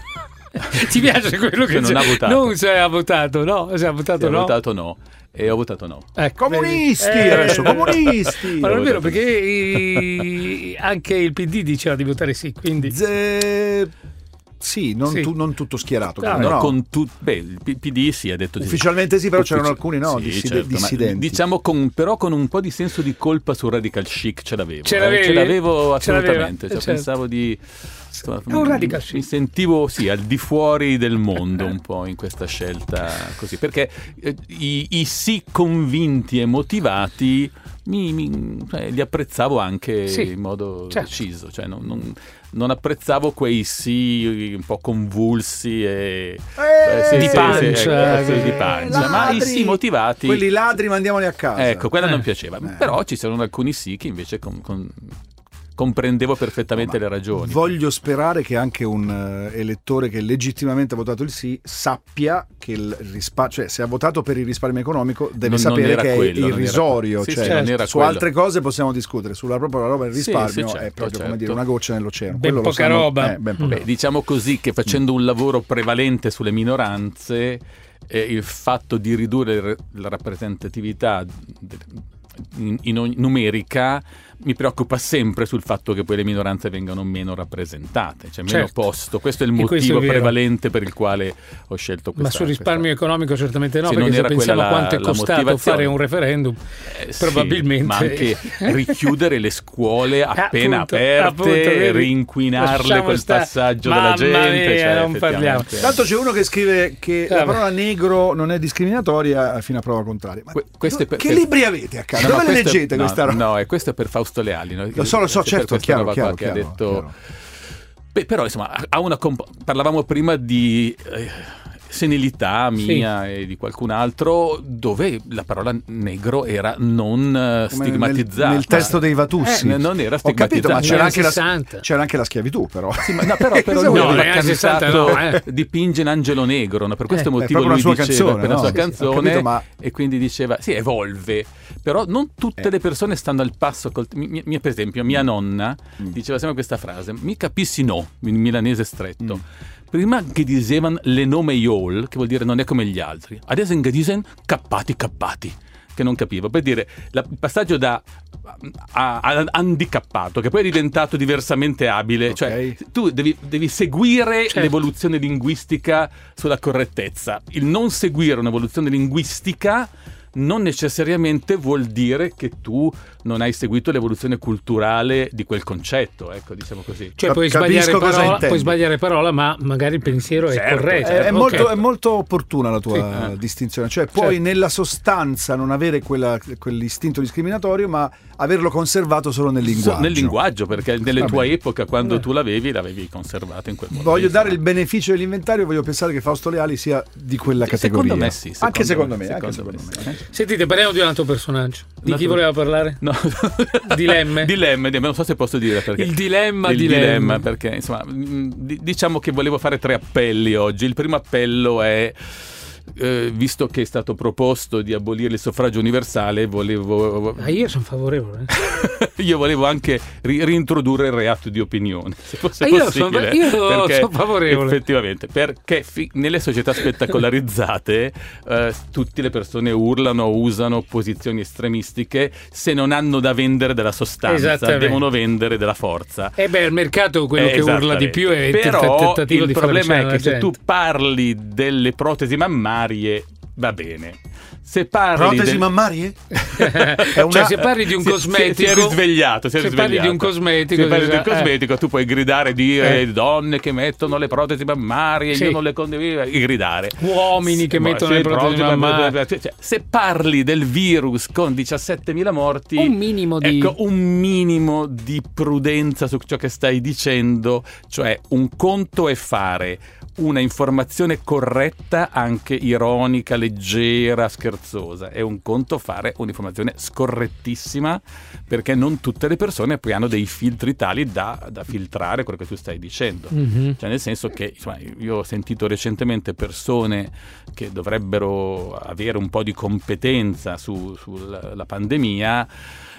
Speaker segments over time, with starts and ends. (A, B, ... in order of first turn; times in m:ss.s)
0:00.6-0:04.6 A
0:00.7-0:01.1 B
0:01.6-0:02.6 B
0:04.2-0:06.1 B
0:06.2-0:13.0 A
0:06.4-0:08.8 C
0:07.2-0:10.2 B
0:12.8-0:13.9 C
0:14.6-0:16.8 C
0:16.2-0:16.6 A
0:16.3-0:27.6 B
0:18.6-0:21.4 C
0:24.8-0:27.1 A
0:28.1-0:50.5 B
0:28.4-0:29.3 A
0:46.6-0:51.9 C
0:47.1-0:49.1 A
0:51.6-0:55.1 B
0:52.6-0:53.0 C
0:55.8-0:57.7 B
0:56.8-1:13.9 C
1:05.4-1:08.3 B
1:07.4-1:07.8 A
1:10.1-1:11.6 B
1:12.3-1:13.8 A
1:13.7-1:32.9 B
1:28.5-1:28.7 A
1:29.6-1:30.4 A
1:32.2-1:36.6 A
1:33.8-1:36.0 B
1:36.9-1:46.0 B
1:37.2-1:39.0 A
1:40.4-1:45.7 A
1:45.8-1:53.4 C
1:47.3-1:47.7 A
1:50.5-1:51.6 B
1:52.1-1:57.1 B
1:54.9-1:57.1 C
1:58.1-2:11.2 B
2:02.8-2:03.1 A
2:07.7-2:15.2 C
2:08.7-2:09.6 A
2:10.7-2:11.8 A
2:13.0-2:57.2 B
2:13.9-2:15.4 A
2:17.4-2:19.7 C
2:18.6-2:18.9 A
2:42.3-2:42.8 C
2:44.5-2:44.8 A
2:57.2-3:01.7 A
2:57.2-2:58.8 C
2:58.1-2:58.5 B
3:00.0-3:01.9 B
3:01.0-3:10.4 C
3:09.6-3:14.6 B
3:11.2-3:11.5 C
3:13.9-3:20.1 C
3:17.6-3:20.2 B
3:20.3-3:23.0 A
3:22.0-3:32.4 B
3:23.9-3:24.5 A
3:25.9-3:27.5 A
3:32.9-3:37.6 B
3:37.4-3:38.5 A
3:38.5-3:56.4 B
3:42.6-3:44.8 A
3:54.2-3:55.1 A
3:56.4-4:00.6 A
3:57.4-4:05.7 B
4:05.2-4:06.3 C
4:06.4-4:52.5 B
4:06.5-4:09.0 A
4:07.1-4:07.7 C
4:09.5-4:11.5 A
4:15.3-4:15.6 A
4:17.0-4:19.2 A
4:22.8-4:23.7 A
4:43.3-4:43.8 A